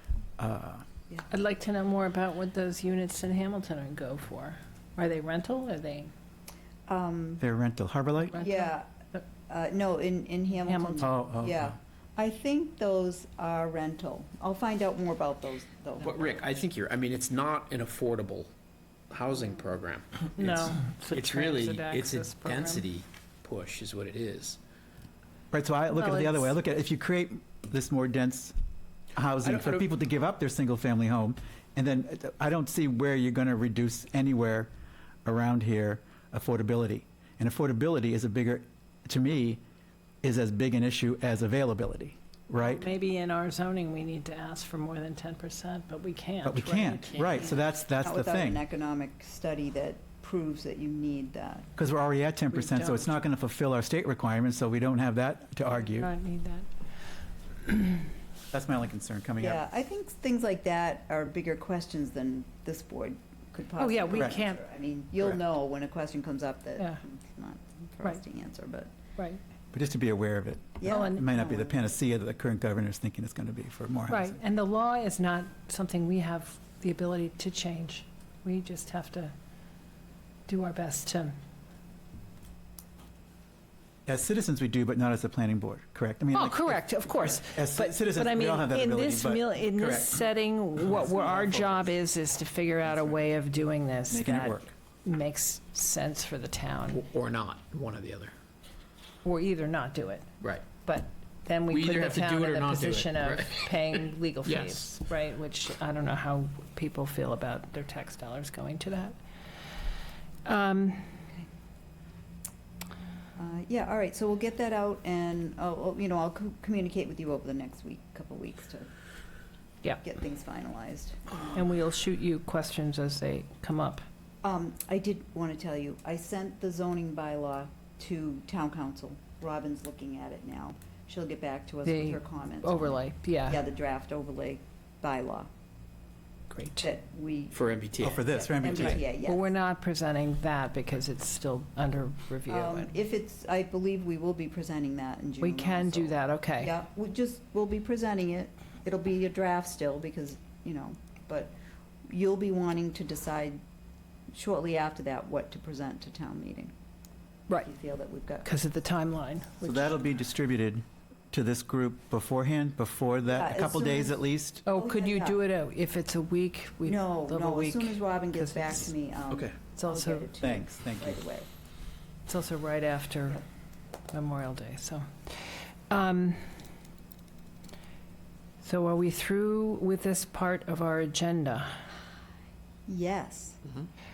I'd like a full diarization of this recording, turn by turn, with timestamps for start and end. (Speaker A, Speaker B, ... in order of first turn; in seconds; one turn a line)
Speaker A: 0.4-0.8
Speaker B: 1.3-6.1
Speaker C: 6.9-7.4
Speaker A: 7.4-8.4
Speaker B: 8.3-8.7
Speaker C: 8.3-8.9
Speaker C: 9.5-16.4
Speaker B: 10.7-11.1
Speaker A: 11.0-11.5
Speaker D: 16.0-18.5
Speaker D: 19.1-24.6
Speaker B: 20.3-22.9
Speaker A: 25.5-28.5
Speaker B: 25.9-26.6
Speaker A: 29.1-34.7
Speaker D: 29.4-29.9
Speaker A: 35.2-39.6
Speaker A: 40.2-42.9
Speaker B: 42.5-47.2
Speaker A: 46.4-48.6
Speaker D: 47.0-47.6
Speaker C: 47.4-51.7
Speaker A: 51.8-56.1
Speaker B: 52.5-53.1
Speaker B: 55.6-56.6
Speaker A: 58.5-59.6
Speaker C: 59.4-68.9
Speaker B: 63.8-64.6
Speaker A: 69.7-74.4
Speaker C: 70.8-71.9
Speaker B: 70.9-71.3
Speaker B: 74.1-79.3
Speaker B: 80.5-81.3
Speaker A: 84.1-90.2
Speaker B: 86.3-97.0
Speaker A: 90.8-92.0
Speaker A: 92.8-93.2
Speaker A: 94.1-94.7
Speaker D: 96.9-98.3
Speaker B: 99.2-109.1
Speaker D: 100.4-100.7
Speaker D: 101.7-105.0
Speaker B: 110.4-111.0
Speaker C: 113.4-118.9
Speaker C: 120.0-121.6
Speaker B: 121.5-124.0
Speaker C: 124.4-135.5
Speaker B: 131.8-133.6
Speaker B: 136.5-136.9
Speaker C: 136.8-139.5
Speaker D: 137.5-138.8
Speaker A: 138.0-139.0
Speaker B: 139.1-142.9
Speaker C: 142.5-151.5
Speaker B: 145.4-146.8
Speaker C: 152.1-153.6
Speaker C: 154.3-156.7
Speaker C: 157.5-158.5
Speaker B: 158.4-160.0
Speaker A: 159.6-164.6
Speaker C: 163.3-165.4
Speaker B: 164.6-168.9
Speaker C: 166.8-171.5
Speaker D: 169.3-169.6
Speaker B: 169.7-170.3
Speaker A: 170.4-171.2
Speaker B: 172.3-173.4
Speaker B: 174.1-175.0
Speaker B: 175.9-176.5
Speaker B: 178.6-181.8
Speaker C: 182.9-183.6